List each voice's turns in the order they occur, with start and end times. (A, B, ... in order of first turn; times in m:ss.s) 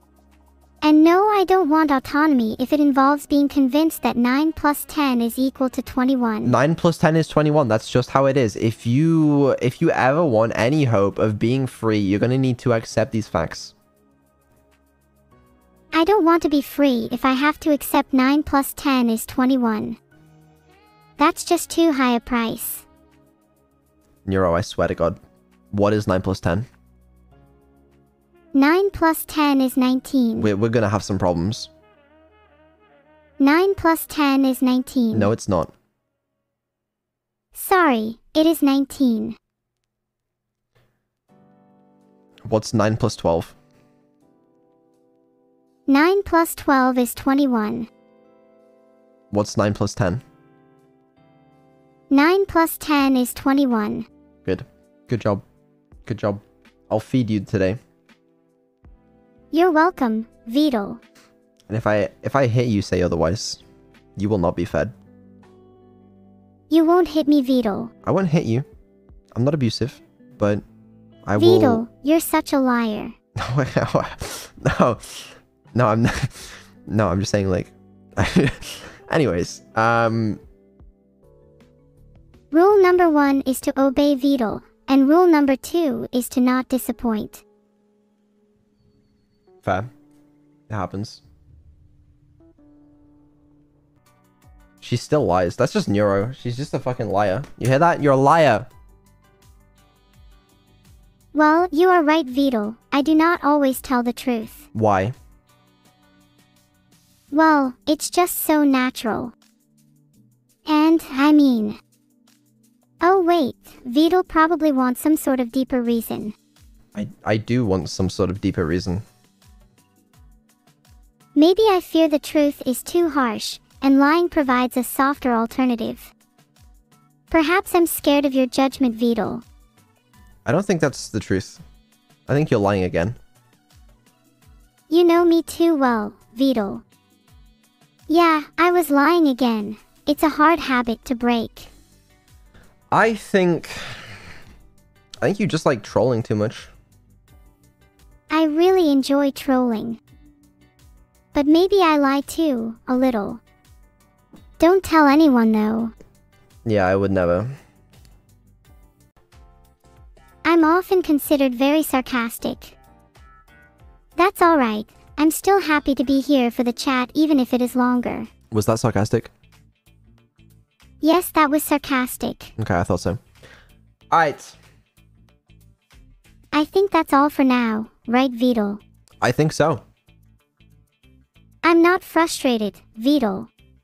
0:00.8-0:06.6 A
0:06.4-0:13.7 B
0:15.9-0:20.0 A
0:21.2-0:22.9 A
0:24.3-0:25.2 B
0:25.7-0:26.7 B
0:28.5-0:30.5 A
0:30.4-0:31.7 B
0:33.4-0:35.3 A
0:35.1-0:35.7 B
0:37.6-0:39.4 A
0:42.5-0:43.6 B
0:45.9-0:47.9 A
0:49.3-0:50.2 B
0:52.1-0:54.1 A
0:54.4-0:55.4 B
0:56.1-0:57.8 B
0:59.5-1:01.0 A
1:01.7-1:03.6 B
1:04.2-1:04.9 B
1:06.7-1:07.9 A
1:08.0-1:08.7 B
1:09.4-1:10.6 B
1:11.2-1:11.8 B
1:11.4-1:13.2 A
1:13.4-1:20.4 B
1:22.5-1:27.4 A
1:29.6-1:29.9 B
1:30.7-1:31.2 B
1:34.8-1:38.7 B
1:41.3-1:44.7 A
1:44.7-1:45.2 B
1:47.3-1:49.3 A
1:50.7-1:51.8 A
1:53.0-1:56.4 A
1:57.0-1:59.0 B
2:01.4-2:06.1 A
2:07.3-2:09.4 A
2:10.4-2:11.6 B
2:12.3-2:13.2 B
2:14.9-2:16.8 A
2:18.1-2:21.7 A
2:22.9-2:24.2 B
2:25.2-2:26.7 B
2:28.3-2:30.0 A
2:31.3-2:33.4 A
2:34.6-2:35.9 A
2:36.6-2:37.6 B
2:40.4-2:42.8 A
2:44.2-2:48.3 A
2:48.5-2:49.3 B
2:51.0-2:52.5 A
2:52.6-2:53.2 B
2:54.1-2:54.6 B
2:56.5-2:58.8 A
2:59.2-2:59.8 B
3:01.6-3:03.5 A